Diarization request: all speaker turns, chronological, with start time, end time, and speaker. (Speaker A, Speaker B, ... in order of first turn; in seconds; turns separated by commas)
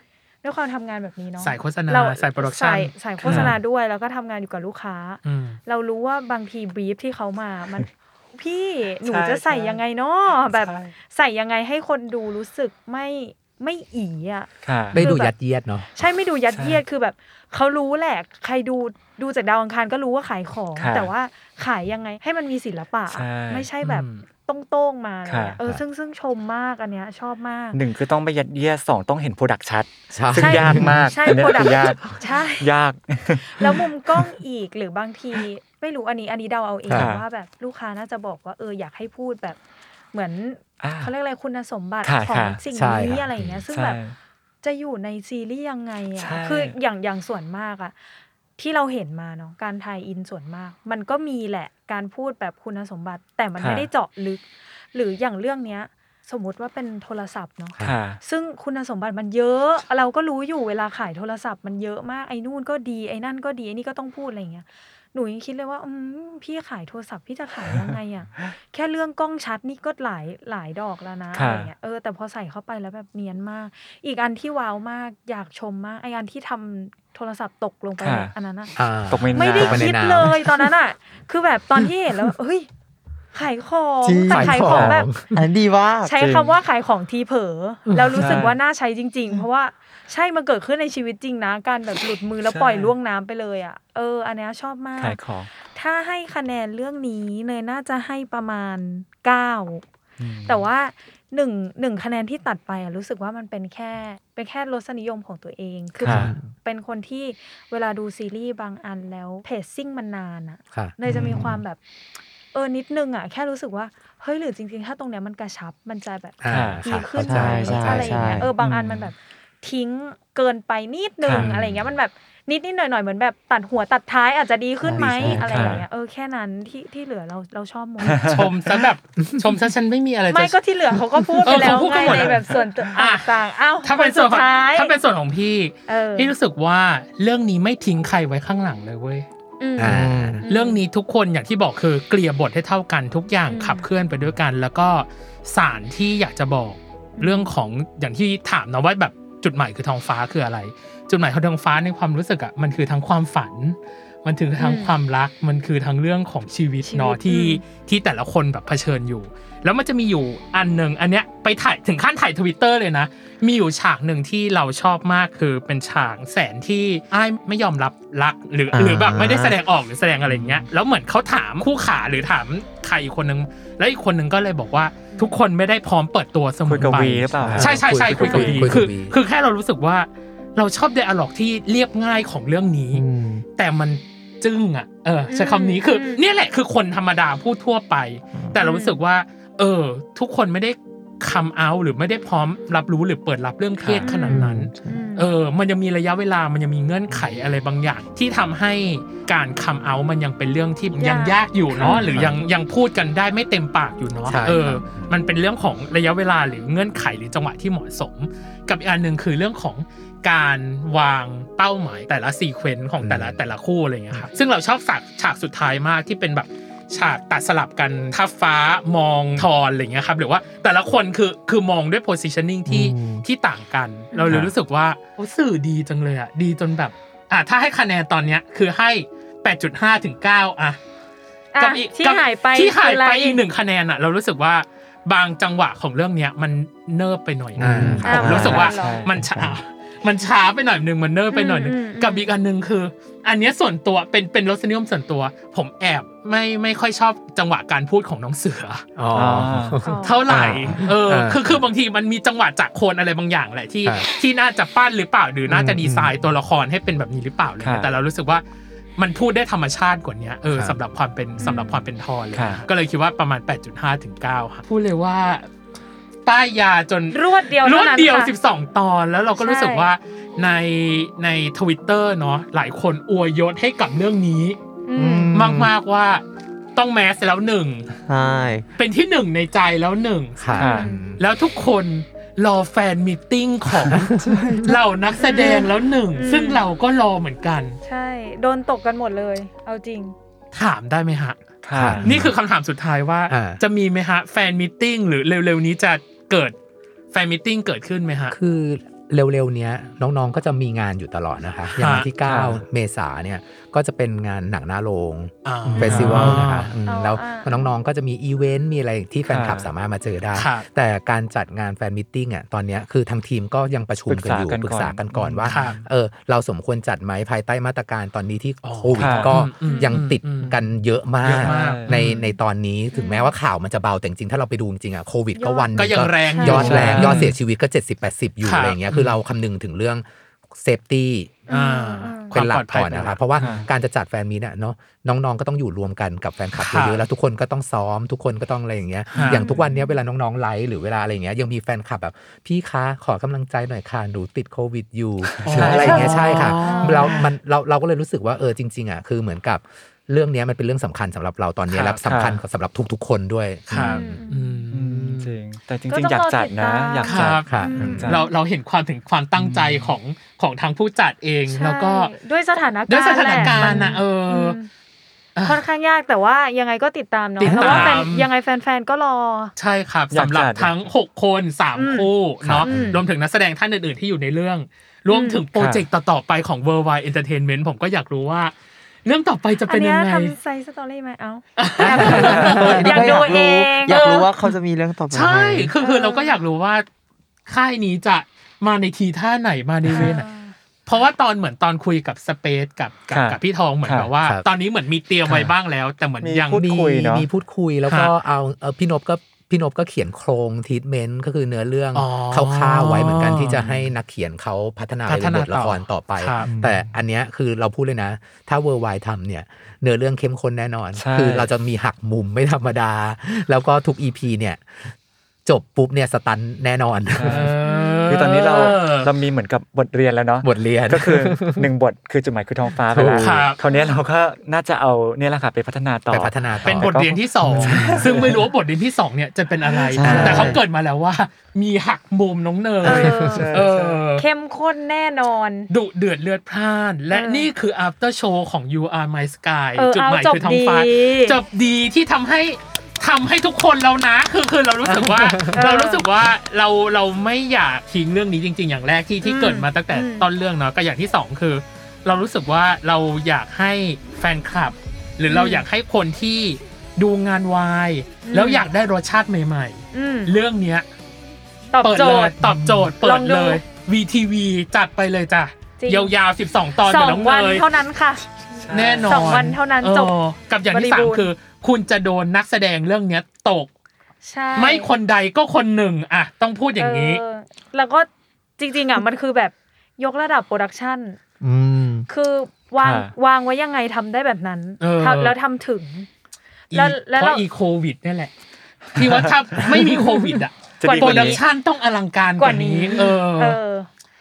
Speaker A: 0.4-15.3, Speaker B: 1.4-3.5, Speaker C: 3.2-3.6, Speaker B: 5.2-5.6, Speaker C: 9.0-9.8, Speaker C: 10.4-10.9, Speaker C: 14.6-15.0, Speaker D: 14.9-15.9, Speaker A: 15.9-27.8, Speaker C: 16.5-16.8, Speaker C: 20.8-21.1, Speaker C: 23.1-23.7, Speaker B: 23.8-24.2, Speaker C: 25.2-25.6, Speaker C: 27.7-34.3, Speaker D: 30.1-31.6, Speaker A: 30.4-32.7, Speaker A: 33.4-39.6, Speaker C: 36.9-37.2, Speaker A: 40.1-44.0, Speaker C: 40.8-41.1, Speaker C: 42.0-42.6, Speaker D: 42.7-43.4, Speaker C: 43.4-44.1, Speaker A: 44.6-48.0, Speaker C: 46.1-46.8, Speaker A: 48.6-78.7, Speaker C: 53.6-53.9, Speaker C: 57.8-58.2, Speaker C: 71.3-71.7, Speaker C: 78.0-78.3, Speaker D: 78.8-80.5, Speaker C: 79.1-79.9, Speaker A: 79.3-82.7, Speaker A: 83.3-85.1, Speaker E: 84.0-84.7, Speaker D: 84.3-85.4, Speaker C: 84.5-85.0, Speaker E: 85.3-86.2, Speaker A: 86.0-99.8, Speaker C: 86.2-86.5, Speaker D: 87.9-88.5, Speaker C: 88.2-88.5, Speaker C: 92.5-92.9, Speaker C: 95.0-95.5, Speaker C: 100.2-100.7, Speaker A: 100.5-111.8, Speaker C: 106.0-106.3, Speaker D: 106.0-106.3, Speaker E: 106.1-106.5, Speaker D: 110.7-111.3, Speaker E: 111.0-111.6, Speaker A: 112.5-128.4, Speaker D: 116.4-118.7, Speaker C: 116.5-116.9, Speaker E: 117.2-118.5, Speaker D: 121.3-121.8, Speaker E: 124.8-125.8, Speaker D: 124.9-125.4, Speaker C: 125.3-125.8, Speaker C: 128.0-128.5, Speaker B: 128.3-130.6, Speaker A: 130.3-134.9, Speaker B: 131.4-139.2, Speaker C: 132.0-132.4, Speaker A: 135.9-136.3, Speaker A: 139.6-140.8, Speaker D: 139.8-140.4, Speaker E: 139.8-140.4, Speaker B: 140.5-183.0, Speaker A: 143.5-143.8, Speaker A: 147.2-147.5, Speaker A: 154.6-154.9, Speaker A: 156.8-157.6, Speaker E: 168.7-169.6, Speaker C: 170.3-170.6, Speaker C: 176.7-178.8, Speaker D: 177.4-179.2, Speaker E: 182.9-183.4, Speaker B: 183.6-230.8, Speaker A: 185.3-186.2, Speaker A: 188.6-189.0, Speaker A: 194.0-195.3, Speaker E: 194.3-195.0, Speaker A: 200.9-202.1, Speaker D: 201.8-202.4, Speaker D: 204.3-204.6, Speaker A: 204.3-204.8, Speaker D: 213.0-213.4, Speaker E: 222.7-223.2, Speaker A: 224.1-224.4, Speaker A: 231.5-233.4, Speaker B: 231.6-248.8, Speaker D: 237.6-238.5, Speaker E: 237.6-238.6, Speaker C: 237.8-239.3, Speaker A: 238.0-239.0, Speaker D: 239.2-239.6, Speaker A: 241.3-242.3, Speaker D: 249.0-251.4, Speaker C: 249.1-249.8, Speaker A: 249.8-250.2, Speaker B: 250.0-258.4, Speaker C: 250.3-250.7, Speaker D: 255.5-255.8, Speaker E: 255.8-256.1, Speaker C: 257.6-257.9, Speaker B: 259.0-265.5, Speaker A: 261.4-261.9, Speaker C: 262.3-262.6, Speaker B: 266.2-274.6, Speaker A: 267.1-268.3, Speaker A: 269.4-269.9, Speaker A: 274.8-275.3, Speaker E: 274.9-275.7, Speaker B: 275.3-276.2, Speaker B: 276.8-277.9, Speaker E: 278.0-278.7, Speaker A: 278.2-278.5, Speaker B: 278.8-280.5, Speaker D: 280.4-281.2, Speaker A: 280.5-281.0, Speaker C: 280.6-280.9, Speaker B: 281.2-287.8, Speaker D: 283.9-284.6, Speaker E: 284.1-284.6, Speaker A: 285.2-286.6, Speaker A: 287.8-290.1, Speaker B: 290.5-291.4, Speaker C: 291.6-292.3, Speaker D: 291.7-292.3, Speaker B: 292.0-296.5, Speaker D: 293.3-293.6, Speaker B: 297.1-298.3, Speaker D: 298.3-330.0, Speaker B: 301.8-302.1, Speaker C: 302.2-302.6, Speaker B: 305.4-306.7, Speaker E: 305.7-306.0, Speaker C: 305.8-306.6, Speaker A: 306.8-307.7, Speaker C: 309.3-309.7, Speaker B: 310.3-310.7, Speaker C: 314.1-315.7, Speaker B: 315.5-315.8, Speaker B: 318.6-320.6, Speaker C: 318.9-319.4, Speaker A: 319.6-320.0, Speaker C: 321.2-322.0, Speaker B: 321.2-322.2, Speaker A: 322.9-323.3, Speaker A: 325.4-326.8, Speaker B: 325.7-327.3, Speaker C: 326.5-327.2, Speaker B: 328.4-329.2, Speaker D: 330.6-331.4, Speaker A: 331.5-332.3, Speaker B: 331.5-333.6, Speaker D: 332.3-354.2, Speaker C: 333.4-333.7, Speaker B: 336.6-337.0, Speaker C: 339.1-339.4, Speaker B: 339.1-339.4, Speaker A: 339.3-340.0, Speaker C: 345.3-346.4, Speaker B: 345.4-347.3, Speaker A: 346.5-347.3, Speaker B: 351.7-352.0, Speaker C: 352.0-352.4, Speaker B: 353.7-355.3, Speaker A: 353.8-354.6, Speaker C: 354.7-358.3, Speaker A: 355.9-358.3, Speaker B: 357.1-362.1, Speaker D: 357.2-358.1, Speaker A: 361.5-364.7, Speaker B: 362.9-364.6, Speaker A: 365.4-369.5, Speaker B: 367.4-368.3, Speaker D: 367.4-368.0, Speaker B: 369.6-378.5, Speaker C: 370.1-370.8, Speaker A: 371.8-372.1, Speaker D: 372.4-373.0, Speaker A: 372.6-373.0, Speaker A: 375.1-375.4, Speaker C: 375.6-375.9, Speaker B: 379.0-380.4, Speaker A: 379.7-384.3, Speaker B: 381.6-384.5, Speaker E: 381.8-385.7, Speaker D: 382.3-382.8, Speaker B: 385.1-386.8, Speaker A: 385.8-386.4, Speaker B: 387.5-390.2, Speaker A: 389.9-390.5, Speaker B: 390.9-396.6, Speaker C: 393.1-394.1, Speaker C: 396.2-397.3, Speaker D: 396.6-414.9, Speaker B: 397.9-398.1, Speaker B: 401.9-403.7, Speaker B: 405.1-406.5, Speaker E: 406.4-406.9, Speaker C: 410.9-411.5, Speaker D: 415.4-417.5, Speaker B: 417.2-419.1, Speaker A: 417.6-418.8, Speaker C: 418.1-428.4, Speaker D: 420.4-421.7, Speaker D: 422.9-423.5, Speaker B: 423.2-423.6, Speaker A: 423.7-423.9, Speaker D: 426.1-427.0, Speaker B: 426.6-434.2, Speaker E: 427.4-428.2, Speaker D: 427.6-428.0, Speaker E: 429.7-430.6, Speaker C: 430.0-430.6, Speaker D: 430.0-430.6, Speaker A: 432.8-433.4, Speaker D: 432.8-433.4, Speaker C: 433.2-434.0, Speaker A: 434.2-435.7, Speaker B: 435.7-460.9, Speaker A: 437.1-437.5, Speaker A: 439.8-441.4, Speaker D: 444.8-445.6, Speaker A: 445.5-446.0, Speaker A: 449.2-450.3, Speaker A: 455.3-455.6, Speaker A: 458.2-458.6, Speaker A: 459.9-460.4, Speaker A: 461.7-462.4, Speaker B: 461.8-467.7, Speaker E: 462.4-462.9, Speaker A: 463.0-463.6, Speaker A: 465.8-466.1, Speaker A: 466.8-468.2, Speaker C: 468.6-469.2, Speaker B: 468.7-473.7, Speaker A: 469.1-470.1, Speaker A: 470.7-471.3, Speaker A: 474.2-474.9, Speaker B: 474.6-477.2, Speaker A: 476.8-481.2, Speaker E: 481.4-482.1, Speaker A: 482.1-486.1, Speaker C: 482.8-483.1, Speaker B: 484.8-485.4, Speaker A: 486.7-487.4, Speaker B: 486.7-488.3, Speaker B: 488.9-493.6, Speaker C: 489.0-490.0, Speaker C: 490.8-491.4, Speaker A: 490.8-491.4, Speaker A: 492.4-493.9